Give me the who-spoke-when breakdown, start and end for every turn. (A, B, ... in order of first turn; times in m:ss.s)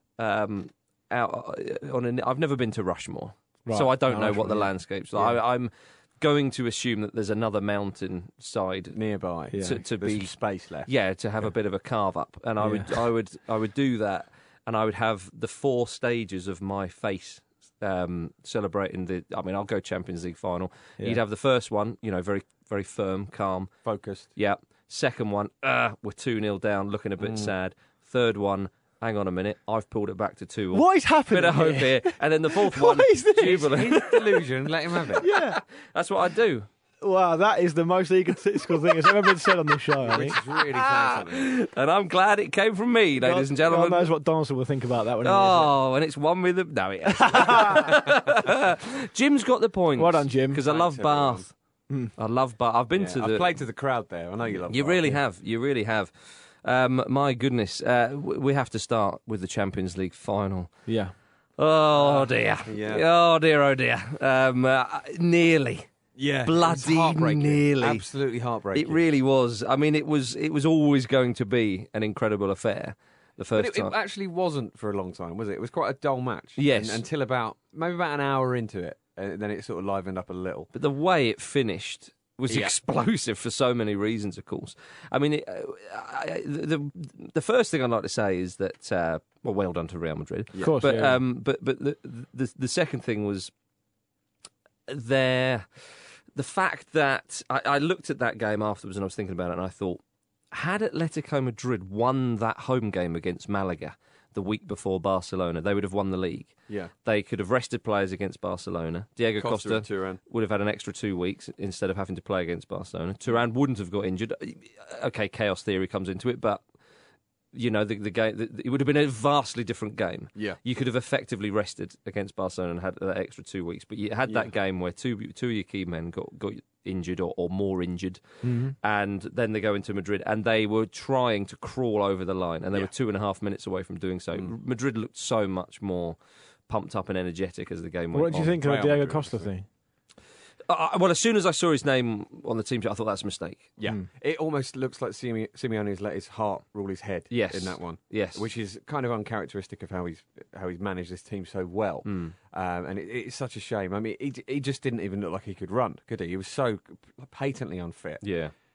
0:00.2-0:09.0 A
0:03.7-0:04.7 B
0:08.9-0:10.9 C
0:09.5-0:09.8 B
0:09.6-0:10.3 A
0:10.9-0:23.7 A
0:12.6-0:13.0 B
0:23.8-0:24.3 C
0:24.4-0:34.6 A
0:27.2-0:27.5 C
0:30.7-0:33.7 B
0:33.4-0:35.3 C
0:35.2-0:35.4 A
0:35.2-0:35.6 B
0:35.9-0:36.7 A
0:37.0-0:40.4 B
0:40.0-0:41.6 C
0:40.7-0:44.1 A
0:43.2-0:45.7 B
0:45.2-0:51.5 A
0:47.1-0:47.9 B
0:50.0-0:50.6 B
0:50.7-0:51.4 C
0:52.2-0:53.5 A
0:53.0-0:55.2 C
0:54.7-0:56.1 A
0:56.6-1:00.7 A
1:00.9-1:01.1 B
1:01.6-1:05.9 A
1:02.0-1:03.0 C
1:06.2-1:09.0 C
1:06.4-1:08.0 A
1:08.7-1:14.0 A
1:13.6-1:20.7 C
1:16.6-1:17.0 A
1:20.7-1:33.5 A
1:22.5-1:22.7 C
1:30.5-1:30.8 C
1:30.6-1:31.2 B
1:34.9-1:35.8 A
1:36.4-1:56.6 A
1:49.4-1:50.2 C
1:57.5-2:08.2 A
2:08.4-2:08.8 B
2:08.8-2:16.2 A
2:16.7-2:18.6 A
2:18.1-2:19.7 B
2:18.6-2:19.5 C
2:20.7-2:23.7 A
2:23.8-2:38.2 C
2:27.3-2:28.4 A
2:32.0-2:32.3 A
2:38.2-2:38.5 A